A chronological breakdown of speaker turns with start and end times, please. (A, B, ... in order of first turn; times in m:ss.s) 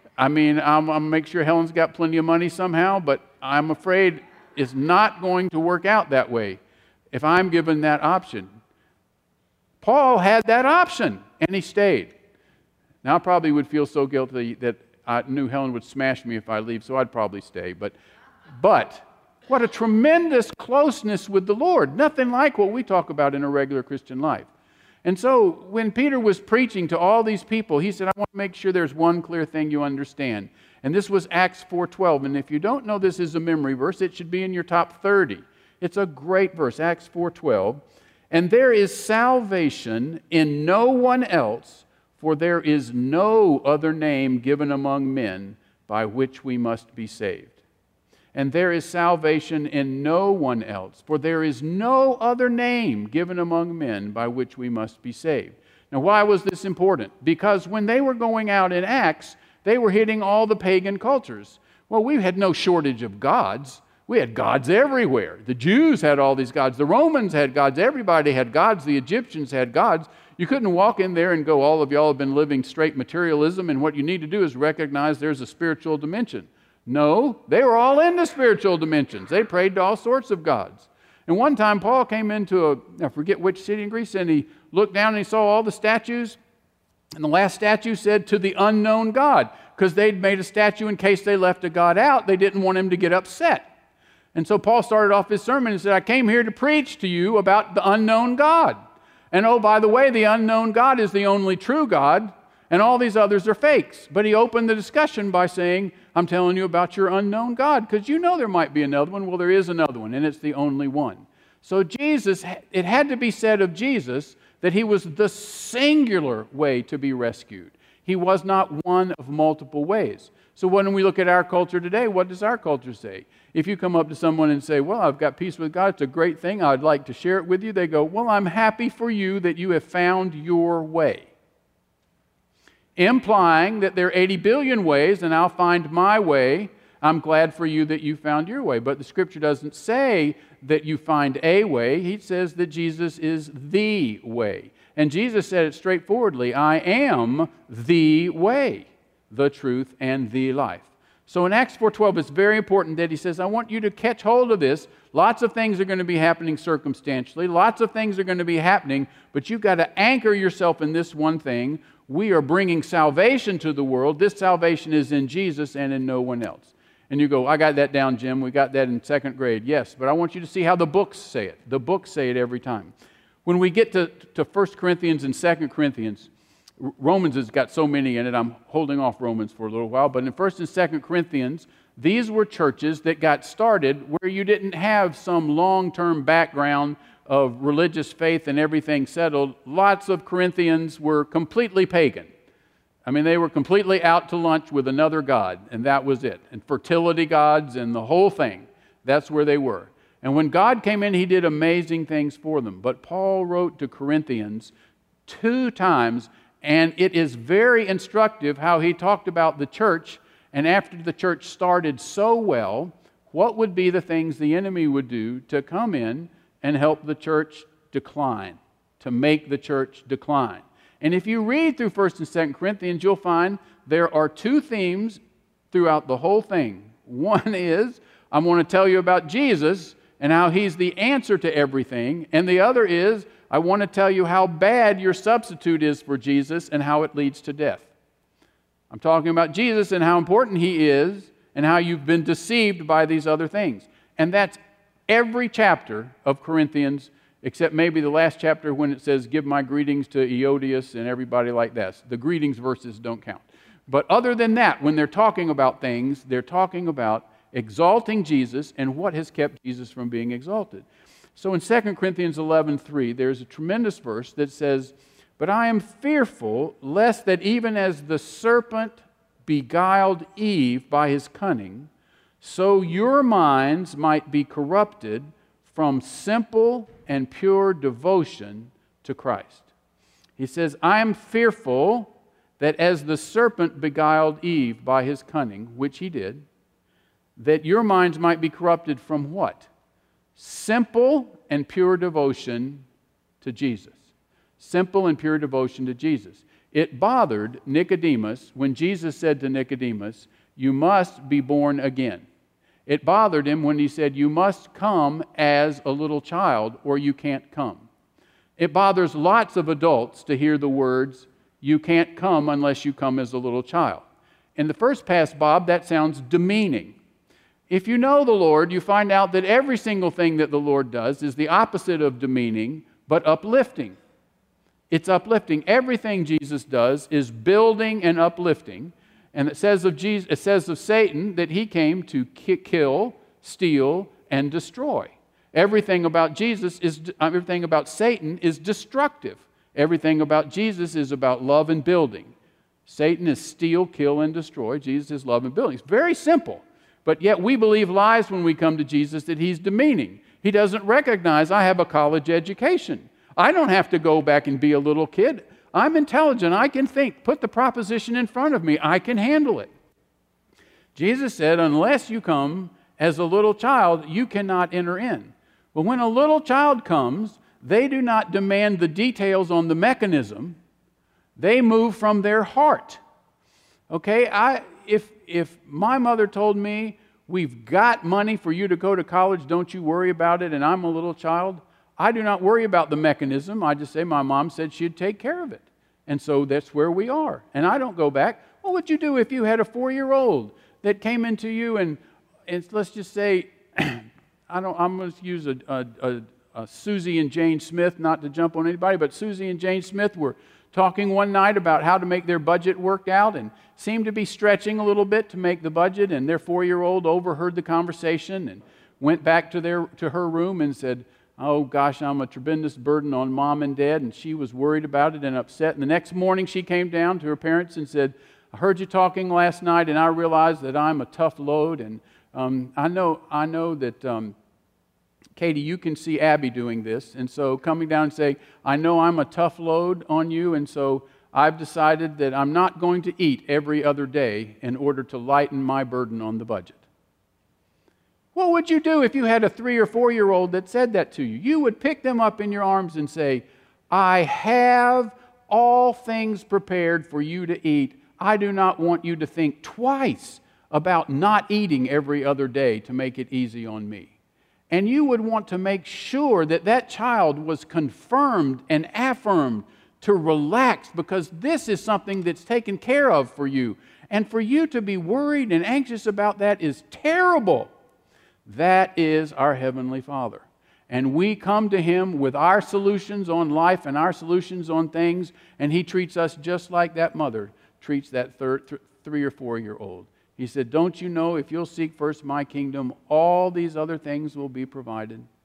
0:00.2-0:06.6 A
0:07.1-0:08.5 A
0:09.8-0:12.1 A
0:13.0-0:18.0 A
0:18.6-0:24.5 A
0:25.0-0:47.6 A
0:48.3-1:26.4 A
1:27.1-1:33.7 A
1:34.3-1:38.8 A
1:39.3-2:11.3 A
2:13.0-2:52.9 A
2:53.4-2:56.3 A
2:56.8-3:12.3 A
3:13.0-3:24.7 A
3:25.2-3:45.2 A
3:45.7-3:57.9 A
3:58.9-4:31.9 A
4:32.4-4:39.7 A
4:40.4-4:46.4 A
4:47.4-4:49.7 A
4:50.4-4:52.8 A
4:53.4-4:54.0 A
4:54.6-5:02.2 A
5:02.9-5:07.8 A
5:08.6-5:14.0 A
5:14.6-5:17.0 A
5:17.7-5:24.0 A
5:24.9-5:42.3 A
5:42.8-5:59.7 A
6:00.9-6:10.6 A
6:11.4-6:13.0 A
6:13.9-7:04.3 A
7:05.4-7:16.8 A
7:18.3-7:34.1 A
7:34.7-7:47.7 A
7:48.4-8:05.2 A